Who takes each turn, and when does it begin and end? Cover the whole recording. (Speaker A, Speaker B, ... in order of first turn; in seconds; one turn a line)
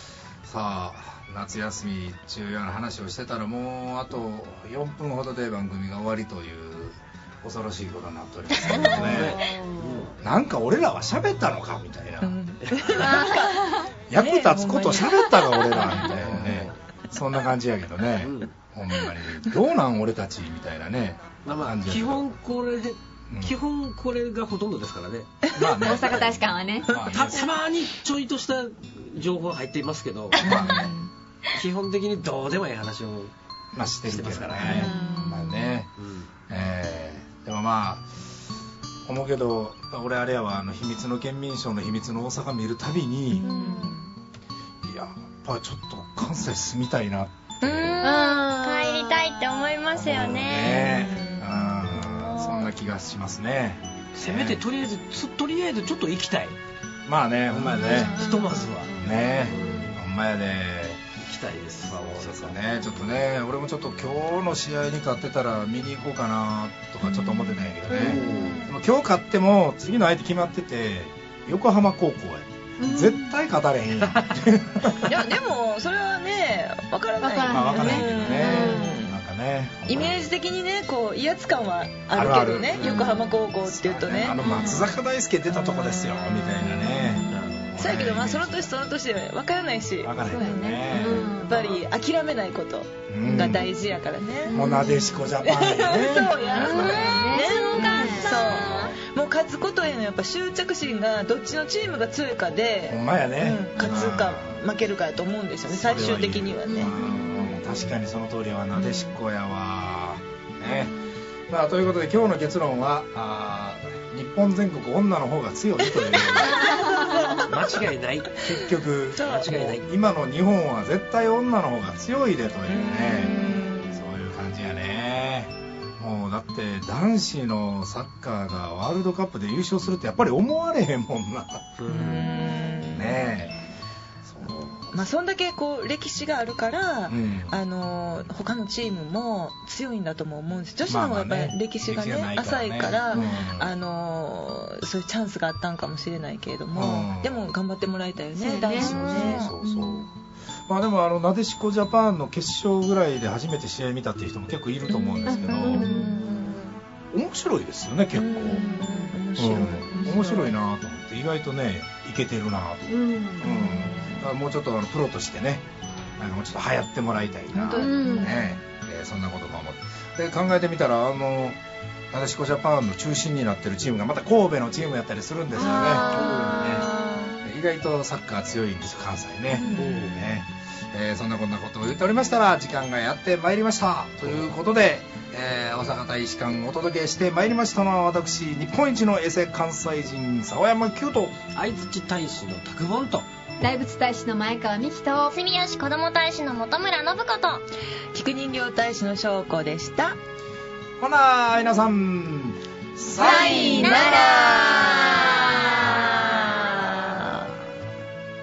Speaker A: 0.4-9.4
Speaker B: 8.6-10.2
Speaker C: 8.7-10.0
Speaker A: 10.2-13.2
Speaker D: 12.2-16.2
Speaker B: 12.6-13.1
Speaker C: 13.1-13.8
Speaker A: 14.1-22.3
Speaker B: 16.1-16.8
Speaker B: 18.2-18.5
Speaker B: 21.4-26.1
Speaker A: 23.3-23.6
Speaker A: 25.6-27.5
Speaker C: 25.7-27.4
Speaker B: 27.1-30.5
Speaker A: 30.4-30.9
Speaker D: 30.4-31.1
Speaker B: 31.5-33.3
Speaker A: 33.7-35.9
Speaker B: 34.1-34.9
Speaker D: 34.6-35.8
Speaker C: 34.7-35.1
Speaker B: 36.0-36.3
Speaker A: 36.5-38.1
Speaker A: 39.1-43.5
Speaker D: 43.4-44.1
Speaker E: 43.4-44.0
Speaker A: 44.8-48.0
Speaker E: 47.6-51.1
Speaker C: 48.0-49.6
Speaker A: 49.9-54.6
Speaker D: 50.6-51.4
Speaker E: 52.1-52.7
Speaker B: 54.1-56.6
Speaker A: 57.1-58.2
Speaker B: 57.5-59.9
Speaker C: 57.7-59.9
Speaker A: 59.0-61.0
Speaker B: 61.2-62.8
Speaker A: 61.9-75.1
Speaker C: 67.3-68.7
Speaker B: 67.9-68.6
Speaker D: 68.2-68.5
Speaker C: 72.8-73.3
Speaker D: 75.1-79.2
Speaker C: 77.2-79.0
Speaker A: 77.5-80.3
Speaker D: 79.9-84.8
Speaker A: 82.1-88.7
Speaker C: 82.8-83.3
Speaker C: 84.4-84.9
Speaker D: 86.6-94.6
Speaker B: 87.3-87.8
Speaker A: 90.0-91.6
Speaker C: 90.2-91.8
Speaker A: 93.1-93.7
Speaker C: 94.5-95.3
Speaker A: 94.5-96.9
Speaker D: 95.4-107.3
Speaker C: 96.4-98.5
Speaker E: 96.5-98.9
Speaker A: 98.3-99.0
Speaker A: 102.9-104.6
Speaker C: 103.8-104.1
Speaker A: 105.7-111.0
Speaker C: 106.8-107.7
Speaker D: 108.8-109.1
Speaker A: 111.5-116.8
Speaker D: 116.6-117.5
Speaker B: 117.4-118.5
Speaker A: 118.4-131.7
Speaker D: 119.2-119.8
Speaker B: 119.2-119.9
Speaker D: 122.7-124.0
Speaker B: 131.8-132.3
Speaker D: 131.9-133.2
Speaker A: 132.9-133.6
Speaker A: 134.2-135.1
Speaker D: 134.9-149.6
Speaker A: 137.1-137.6
Speaker A: 140.8-143.8
Speaker A: 146.7-147.4
Speaker C: 148.4-150.0
Speaker A: 148.7-150.1
Speaker A: 150.7-155.9
Speaker D: 154.9-156.7
Speaker C: 155.2-156.8
Speaker A: 157.1-165.6
Speaker D: 158.1-160.6
Speaker C: 158.4-159.8
Speaker C: 162.9-163.9
Speaker D: 163.5-164.3
Speaker A: 166.2-171.6
Speaker D: 167.5-168.5
Speaker C: 167.8-168.6
Speaker A: 172.1-176.9
Speaker C: 175.6-177.4
Speaker B: 176.1-176.7
Speaker A: 177.4-191.4
Speaker D: 179.5-180.1
Speaker B: 179.7-180.3
Speaker B: 191.5-193.3
Speaker C: 193.6-195.4
Speaker E: 195.3-197.6
Speaker D: 198.1-200.2
Speaker A: 201.0-204.8
Speaker C: 203.2-206.0
Speaker E: 203.2-206.7
Speaker D: 203.3-205.0
Speaker D: 207.0-207.5